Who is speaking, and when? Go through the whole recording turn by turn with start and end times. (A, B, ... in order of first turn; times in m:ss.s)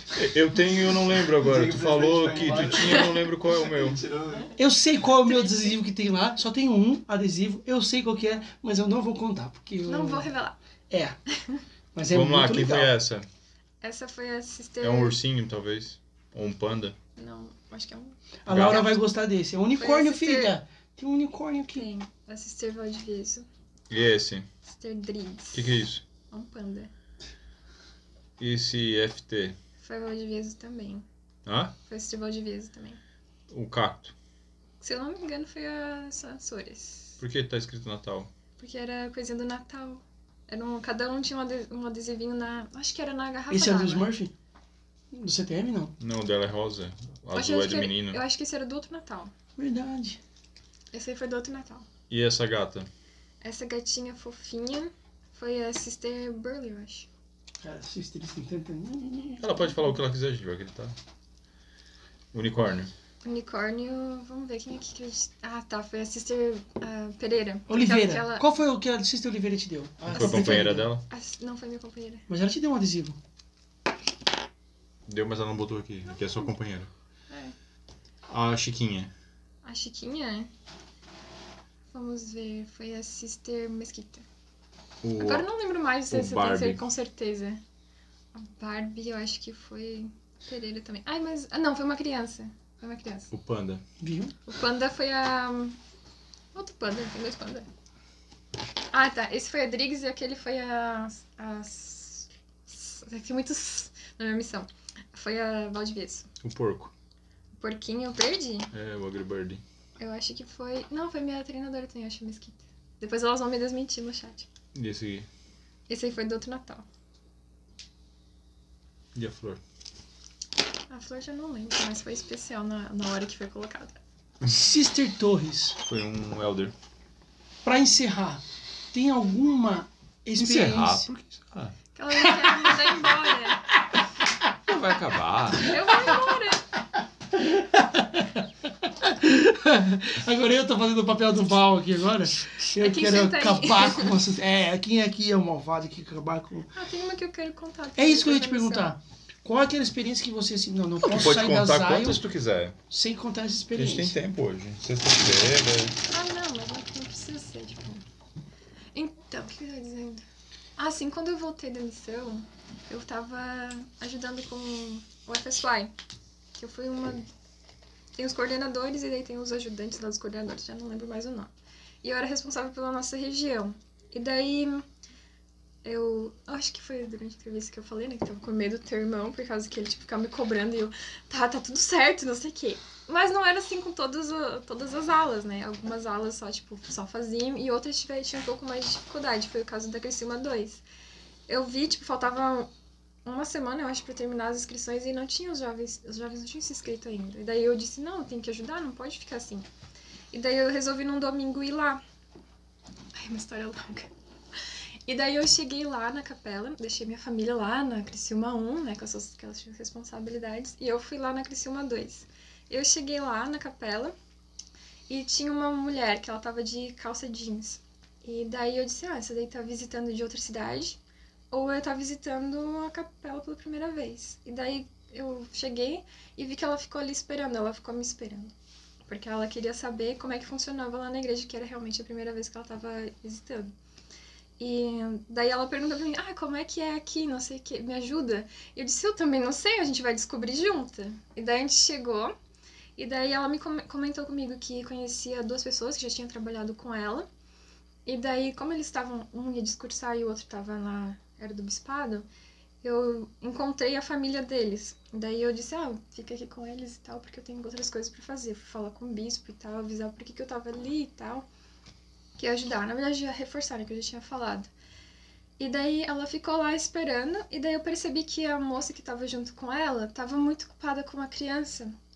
0:00.1-0:04.0 A
0:01.3-0:04.6 B
0:04.6-0:10.3 C
0:05.3-0:05.7 D
0:09.9-0:10.6 D
0:10.9-0:11.2 C
0:11.9-0:12.9 C
0:12.1-0:13.3 A
0:13.8-0:15.2 D
0:14.8-0:17.0 A
0:17.2-0:19.0 D
0:18.4-0:21.9 C
0:18.5-0:18.9 A
0:19.8-0:20.5 D
0:21.8-0:23.5 D
0:23.9-0:24.5 A
0:24.6-0:25.7 D
0:25.5-0:26.0 A
0:26.3-0:26.9 D
0:28.4-0:29.6 A
0:29.8-0:31.0 D
0:31.5-0:31.7 A
0:31.9-0:33.0 D
0:33.5-0:34.1 A
0:34.8-0:37.2 D
0:37.2-0:38.3 A
0:38.6-0:44.1 D
0:43.5-0:44.3 C
0:45.1-0:45.9 C
0:46.0-0:48.2 A
0:47.3-0:49.3 D
0:49.6-0:50.2 C
0:50.9-0:51.9 D
0:52.1-0:52.9 A
0:53.4-0:57.1 D
0:57.6-0:59.8 C
0:59.4-1:01.0 A
1:02.3-1:02.9 A
1:03.2-1:08.5 D
1:07.7-1:10.9 C
1:10.1-1:11.0 A
1:10.2-1:10.5 D
1:11.1-1:12.2 D
1:12.3-1:13.2 C
1:15.1-1:16.9 A
1:17.3-1:17.6 D
1:18.3-1:19.1 A
1:19.6-1:20.5 D
1:21.9-1:24.2 D
1:25.0-1:25.5 A
1:25.2-1:27.6 D
1:26.1-1:26.8 A
1:28.3-1:33.3 D
1:33.3-1:33.8 A
1:34.0-1:34.4 C
1:34.5-1:35.8 D
1:36.5-1:37.7 D
1:38.9-1:46.3 D
1:46.4-1:46.9 A
1:47.6-1:48.7 D
1:48.7-1:49.6 A
1:50.0-1:54.5 D
1:54.7-1:55.3 A
1:55.9-1:56.8 D
1:59.2-1:59.6 A
2:00.9-2:04.0 D
2:04.5-2:05.8 C
2:05.8-2:06.7 A
2:07.6-2:08.4 C
2:08.9-2:11.1 C
2:10.4-2:11.8 A
2:12.0-2:13.6 D
2:14.7-2:15.9 A
2:15.6-2:16.7 D
2:17.4-2:26.7 C
2:22.8-2:24.2 D
2:26.7-2:28.9 D
2:28.0-2:32.2 C
2:31.0-2:32.8 A
2:32.9-2:34.1 C
2:33.8-2:36.0 A
2:36.1-2:38.0 D
2:38.9-2:40.2 D
2:40.8-2:45.9 D
2:46.6-2:47.3 D
2:48.2-2:51.5 D
2:52.0-2:54.8 D
2:55.8-3:10.8 D
3:11.5-3:12.7 D
3:13.2-3:19.7 D
3:20.3-3:22.0 D
3:23.2-3:24.1 D
3:25.1-3:34.2 D
3:35.1-3:41.0 D
3:41.5-3:48.5 D
3:49.1-3:53.7 D
3:54.6-4:02.3 D
4:03.0-4:07.3 D
4:08.1-4:12.3 D
4:12.8-4:21.5 D
4:22.4-4:24.7 D
4:25.6-4:32.0 D